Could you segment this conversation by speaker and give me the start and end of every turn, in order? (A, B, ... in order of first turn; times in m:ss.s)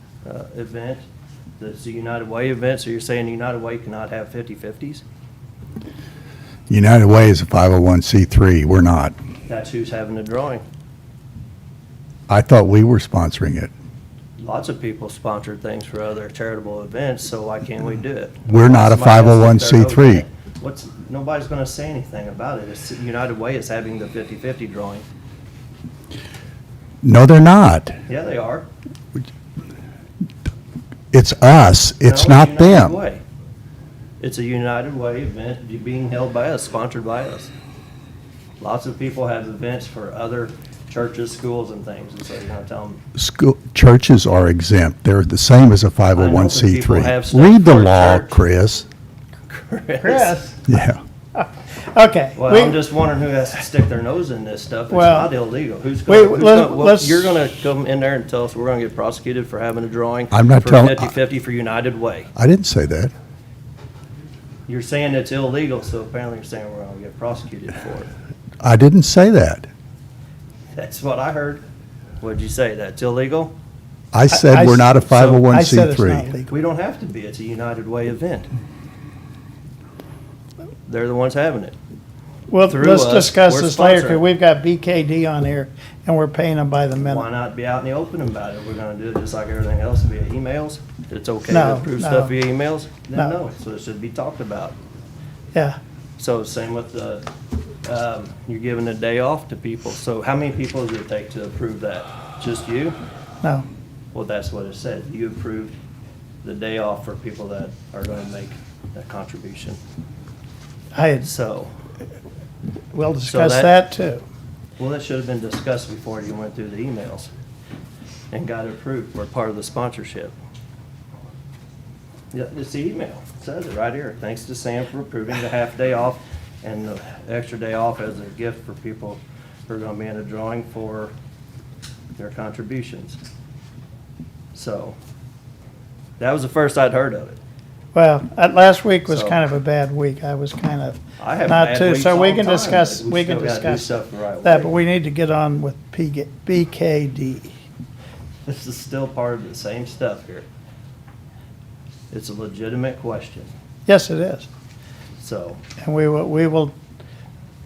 0:00.2-0:01.0 A
0:01.6-0:05.0 A
0:06.7-0:09.2 B
0:09.5-0:10.6 A
0:12.3-0:13.7 B
0:14.4-0:25.0 A
0:18.4-0:20.2 B
0:27.0-0:28.0 B
0:28.1-0:28.7 A
0:31.1-0:33.0 B
0:32.0-0:33.2 A
0:34.2-0:37.5 A
0:38.6-0:43.0 A
0:43.2-0:48.8 B
0:46.1-0:48.4 A
0:49.5-0:50.4 A
0:50.0-0:50.6 C
0:50.7-0:51.0 B
0:51.3-0:52.8 C
0:52.4-1:02.3 A
0:54.9-0:55.3 C
0:56.1-0:57.4 C
1:00.3-1:01.1 B
1:02.4-1:03.1 B
1:04.7-1:08.1 A
1:08.6-1:09.7 B
1:10.7-1:11.6 A
1:12.2-1:13.5 A
1:14.1-1:16.3 B
1:14.3-1:15.0 C
1:15.1-1:15.4 A
1:15.5-1:16.5 C
1:16.5-1:18.5 A
1:20.8-1:21.8 A
1:22.5-1:27.3 C
1:22.7-1:24.2 A
1:27.0-1:34.8 A
1:31.5-1:32.3 C
1:36.2-1:37.3 A
1:37.8-1:43.0 A
1:44.1-1:45.8 A
1:46.4-1:49.8 A
1:50.9-1:51.3 C
1:51.2-1:51.7 A
1:52.9-1:54.2 C
1:53.2-1:53.7 A
1:54.8-1:57.3 A
1:58.3-2:00.3 A
2:02.3-2:11.1 A
2:12.2-2:13.2 A
2:14.5-2:15.0 A
2:16.2-2:17.4 A
2:17.9-2:27.5 C
2:19.1-2:19.4 A
2:21.2-2:24.8 A
2:28.4-2:30.5 A
2:32.1-2:33.5 A
2:33.9-2:34.5 C
2:35.2-2:35.6 A
2:35.8-2:36.7 C